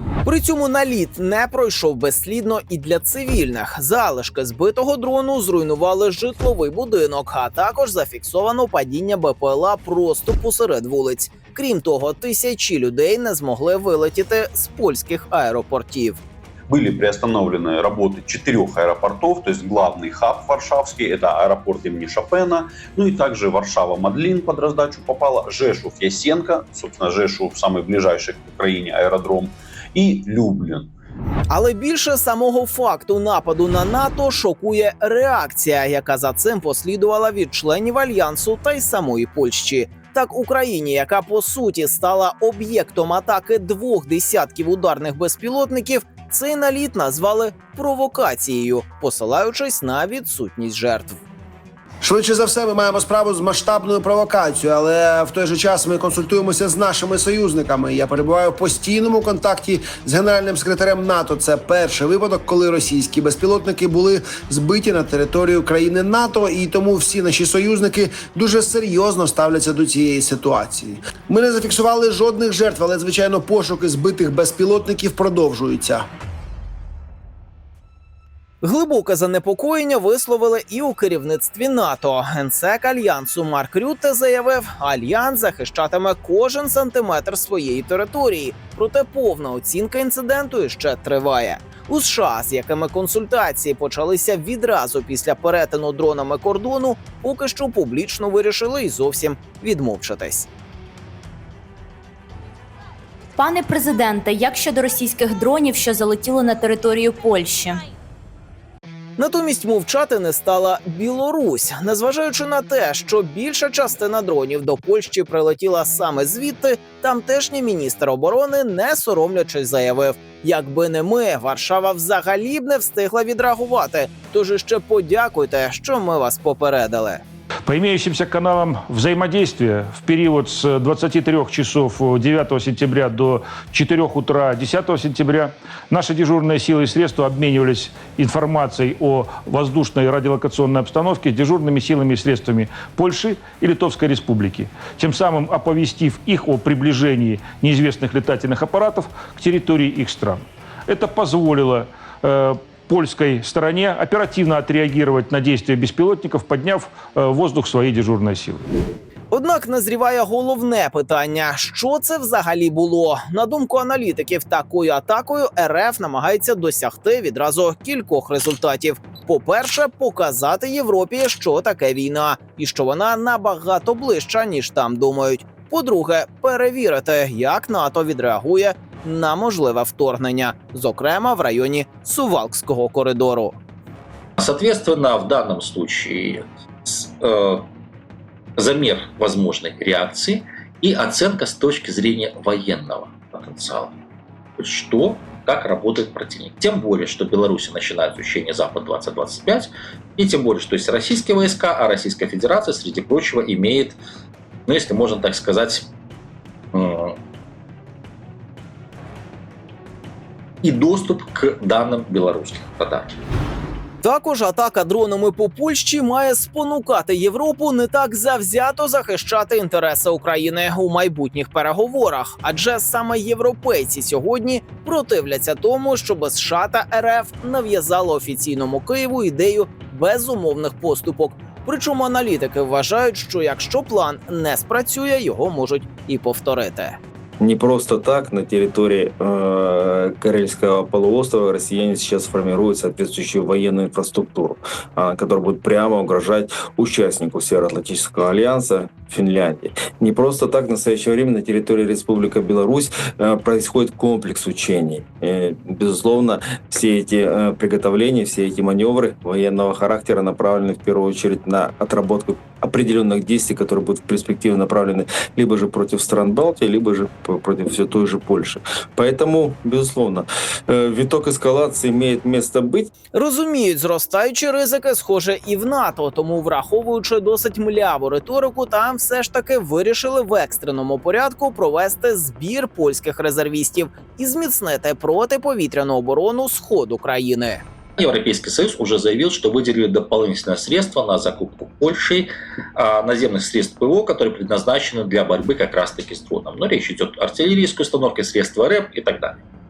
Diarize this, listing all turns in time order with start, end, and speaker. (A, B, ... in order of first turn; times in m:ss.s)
0:00.2-0:16.2 A
0:16.7-0:30.9 B
0:31.5-0:51.2 A
0:52.0-1:16.0 C
1:18.6-1:40.5 A
1:43.4-1:47.8 D
1:49.2-2:07.2 A
2:07.6-2:38.6 E
2:39.3-3:03.6 A
3:04.4-3:07.7 F
3:08.6-3:13.9 F
3:14.6-3:24.0 F
3:24.7-3:25.9 F
3:26.7-3:27.2 F
3:30.6-3:33.2 F
3:34.0-3:57.0 A
3:57.4-4:32.9 G
4:33.1-4:47.6 A
4:48.0-4:59.4 F